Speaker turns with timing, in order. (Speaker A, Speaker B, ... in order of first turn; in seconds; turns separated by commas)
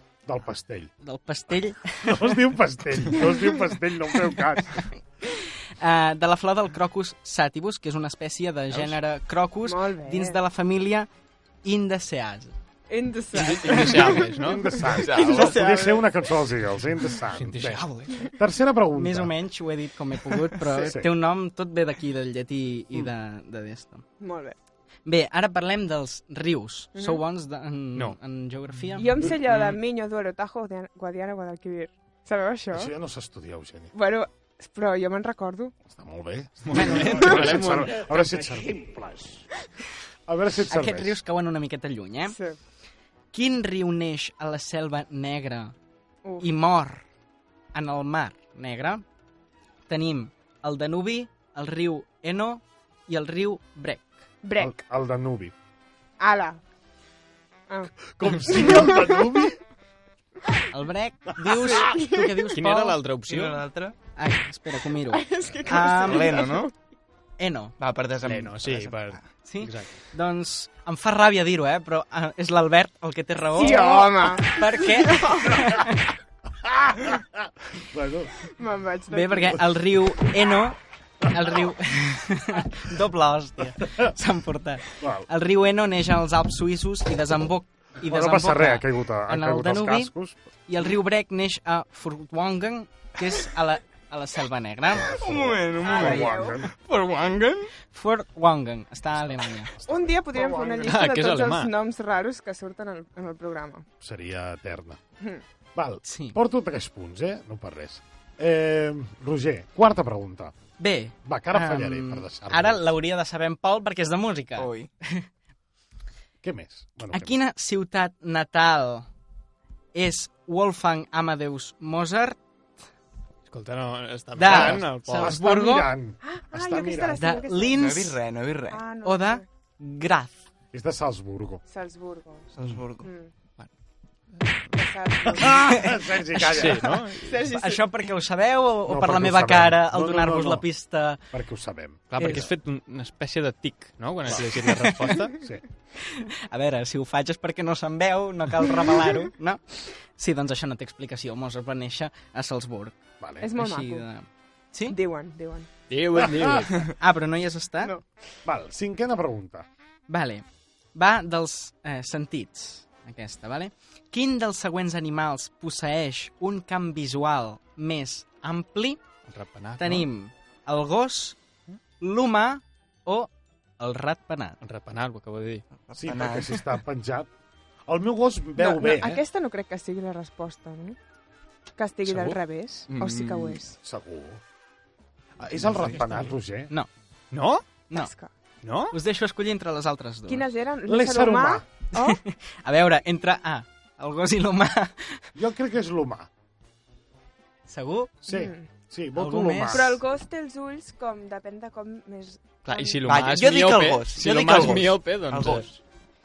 Speaker A: 0.2-0.9, Speaker B: 1.0-2.1, Speaker A: 2.0-4.9, Speaker B: 5.3-11.1, Speaker C: 9.6-10.4, Speaker B: 11.6-12.5, Speaker C: 12.9-16.2, Speaker D: 13.3-15.0, Speaker A: 13.8-19.4, Speaker E: 15.1-15.6, Speaker D: 17.3-18.3, Speaker B: 18.9-24.1, Speaker C: 20.6-20.9, Speaker A: 20.8-21.1, Speaker C: 24.2-24.6, Speaker B: 25.0-29.2, Speaker C: 26.9-27.2, Speaker C: 29.0-32.9, Speaker D: 29.2-29.8, Speaker A: 32.7-33.9, Speaker C: 33.9-35.7, Speaker A: 35.8-39.2, Speaker D: 36.6-38.6, Speaker B: 36.8-37.8, Speaker A: 40.3-41.2, Speaker B: 40.7-42.4, Speaker C: 42.3-42.6, Speaker B: 43.3-45.7, Speaker C: 46.2-46.5, Speaker B: 46.4-47.0, Speaker B: 47.7-49.0, Speaker B: 49.9-54.1, Speaker C: 54.4-54.8, Speaker A: 54.6-55.5, Speaker C: 56.2-56.6, Speaker A: 58.1-59.6, Speaker C: 58.4-59.2, Speaker B: 60.7-63.0, Speaker A: 61.3-62.1, Speaker C: 61.6-62.5, Speaker D: 62.5-63.6, Speaker E: 63.3-64.0, Speaker B: 64.2-66.6, Speaker C: 65.1-66.7, Speaker E: 66.0-66.7, Speaker B: 67.4-67.7, Speaker E: 67.8-69.2, Speaker D: 68.2-70.0, Speaker B: 69.4-76.1, Speaker C: 73.5-75.8, Speaker A: 73.6-74.7, Speaker A: 75.5-75.9, Speaker A: 76.6-78.3, Speaker C: 78.4-79.6, Speaker B: 79.1-90.1, Speaker A: 83.8-84.1, Speaker A: 85.0-85.3, Speaker A: 88.0-90.5, Speaker B: 90.7-95.1, Speaker A: 94.8-96.7, Speaker E: 95.0-97.7, Speaker C: 95.8-96.6, Speaker B: 97.8-99.7, Speaker A: 99.2-100.9, Speaker C: 99.9-103.8, Speaker D: 100.8-101.7, Speaker A: 104.0-105.0, Speaker A: 105.7-110.5, Speaker B: 106.0-106.4, Speaker B: 110.8-115.3, Speaker A: 111.2-112.9, Speaker E: 114.6-114.9, Speaker A: 116.4-117.4, Speaker B: 117.1-119.1, Speaker B: 119.9-122.4, Speaker D: 123.5-125.4, Speaker B: 124.3-125.9, Speaker A: 124.4-127.4, Speaker C: 126.2-127.8, Speaker B: 127.2-128.2, Speaker E: 127.7-128.8, Speaker C: 128.7-129.4, Speaker B: 129.0-130.4, Speaker A: 130.7-131.6, Speaker C: 131.7-132.5, Speaker E: 132.6-133.1, Speaker C: 133.0-133.3, Speaker C: 134.7-135.8, Speaker A: 135.3-137.0, Speaker B: 135.4-136.4, Speaker D: 136.4-137.4, Speaker C: 137.2-137.8, Speaker B: 137.4-141.2, Speaker A: 138.8-140.7, Speaker A: 141.3-142.5, Speaker D: 142.1-145.3, Speaker A: 144.2-144.7, Speaker B: 144.3-145.3, Speaker B: 146.0-153.0, Speaker A: 153.2-153.5, Speaker C: 153.4-154.1, Speaker B: 153.5-155.0, Speaker C: 154.9-155.7, Speaker D: 155.9-156.9, Speaker A: 156.2-156.7, Speaker B: 157.0-157.9, Speaker C: 157.8-158.1, Speaker A: 158.4-159.7, Speaker B: 160.1-160.4, Speaker B: 160.9-169.0, Speaker D: 169.3-170.1, Speaker B: 169.8-171.4, Speaker B: 172.0-174.6, Speaker D: 174.6-175.6, Speaker E: 175.9-176.7, Speaker A: 175.9-177.3, Speaker A: 177.9-179.2, Speaker C: 178.6-181.0, Speaker C: 181.8-183.7, Speaker D: 182.0-182.4, Speaker E: 183.0-183.2, Speaker A: 183.8-184.4, Speaker A: 185.4-186.7, Speaker D: 185.6-186.3, Speaker D: 187.3-187.6, Speaker C: 187.9-188.3, Speaker D: 188.6-188.9, Speaker B: 188.9-190.5, Speaker C: 190.3-192.2, Speaker A: 190.9-191.7, Speaker B: 191.9-195.3, Speaker A: 195.3-196.3, Speaker B: 197.7-198.3, Speaker A: 198.2-200.0, Speaker C: 198.3-198.7, Speaker B: 199.1-199.9, Speaker C: 199.7-203.0, Speaker D: 202.6-205.8, Speaker E: 203.1-205.7